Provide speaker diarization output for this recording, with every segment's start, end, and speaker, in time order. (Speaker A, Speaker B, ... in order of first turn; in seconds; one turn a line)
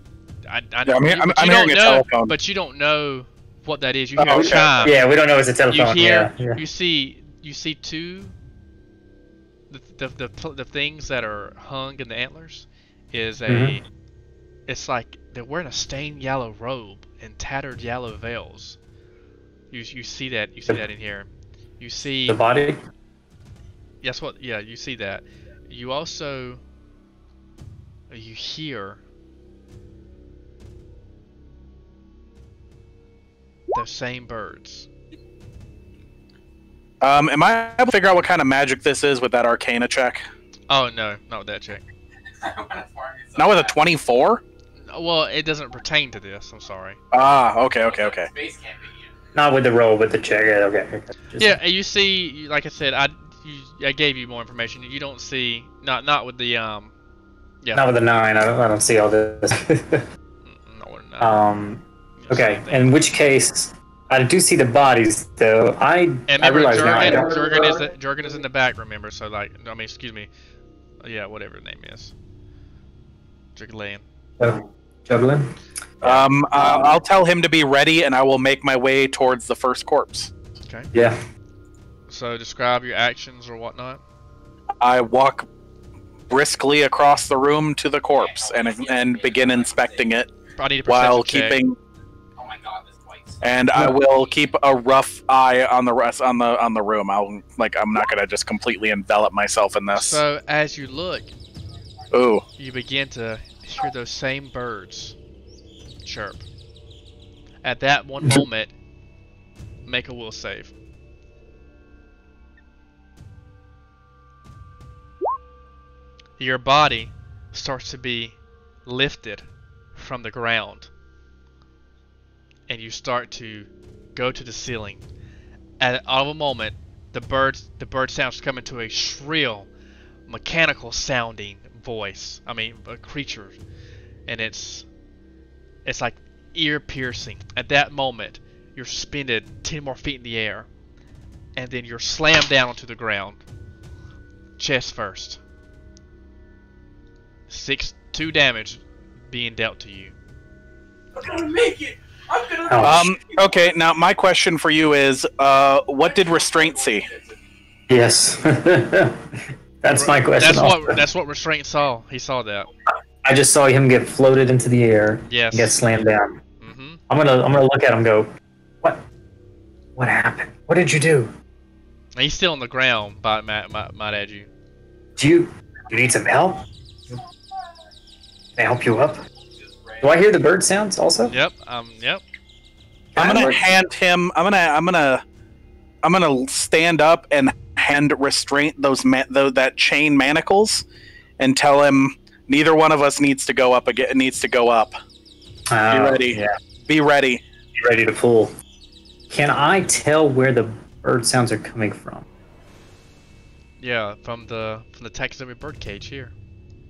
Speaker A: 0.5-5.0
Speaker B: 0.9-2.3
Speaker B: 4.2-4.9
Speaker C: 4.3-6.6
Speaker A: 5.7-8.3
Speaker A: 9.7-13.8
Speaker C: 13.5-13.8
Speaker A: 14.7-18.8
Speaker A: 19.7-21.3
Speaker A: 21.8-22.4
Speaker C: 22.3-22.8
Speaker A: 24.0-26.6
Speaker A: 28.1-29.0
Speaker A: 33.7-34.9
Speaker B: 37.0-40.3
Speaker A: 40.7-41.8
Speaker D: 42.4-43.8
Speaker B: 43.4-44.4
Speaker A: 44.9-47.0
Speaker B: 47.1-48.3
Speaker D: 47.8-49.2
Speaker C: 49.4-51.6
Speaker A: 51.4-56.9
Speaker A: 57.6-57.9
Speaker C: 57.7-60.0
Speaker A: 60.4-61.4
Speaker C: 61.2-67.8
Speaker A: 62.2-62.9
Speaker A: 66.3-70.3
Speaker A: 71.0-72.1
Speaker A: 73.5-74.0
Speaker C: 74.4-77.0
Speaker B: 76.0-80.3
Speaker C: 80.9-81.2
Speaker A: 82.1-84.0
Speaker B: 84.8-85.5
Speaker B: 86.3-90.3
Speaker D: 88.1-90.2
Speaker A: 90.6-91.6
Speaker B: 90.9-91.8
Speaker D: 92.4-94.5
Speaker B: 93.4-100.2
Speaker A: 99.9-101.3
Speaker B: 102.1-102.4
Speaker A: 102.6-105.2
Speaker A: 106.0-106.5
Speaker A: 107.6-108.7
Speaker A: 109.8-110.7
Speaker A: 116.4-120.9
Speaker A: 122.7-125.0
Speaker A: 125.8-129.7
Speaker A: 130.3-133.6
Speaker A: 134.3-134.9
Speaker A: 135.8-140.7
Speaker A: 141.6-143.4
Speaker A: 144.6-145.4
Speaker A: 147.5-150.2
Speaker D: 151.2-153.4
Speaker C: 152.7-153.1
Speaker B: 152.8-157.1
Speaker D: 156.0-157.4
Speaker C: 157.9-161.0
Speaker A: 159.9-162.7
Speaker C: 163.2-166.4
Speaker A: 165.3-165.8
Speaker A: 166.6-167.0
Speaker C: 167.1-168.3
Speaker C: 170.0-171.3
Speaker A: 172.2-174.5
Speaker C: 175.2-176.7
Speaker C: 178.6-179.2
Speaker D: 179.6-180.3
Speaker C: 180.0-181.3
Speaker A: 181.3-182.2
Speaker C: 183.2-183.6
Speaker B: 183.2-185.2
Speaker B: 186.0-190.8
Speaker B: 191.4-194.9
Speaker C: 195.7-196.5
Speaker B: 195.9-197.4
Speaker C: 197.8-198.5
Speaker C: 199.3-202.3
Speaker A: 203.8-206.3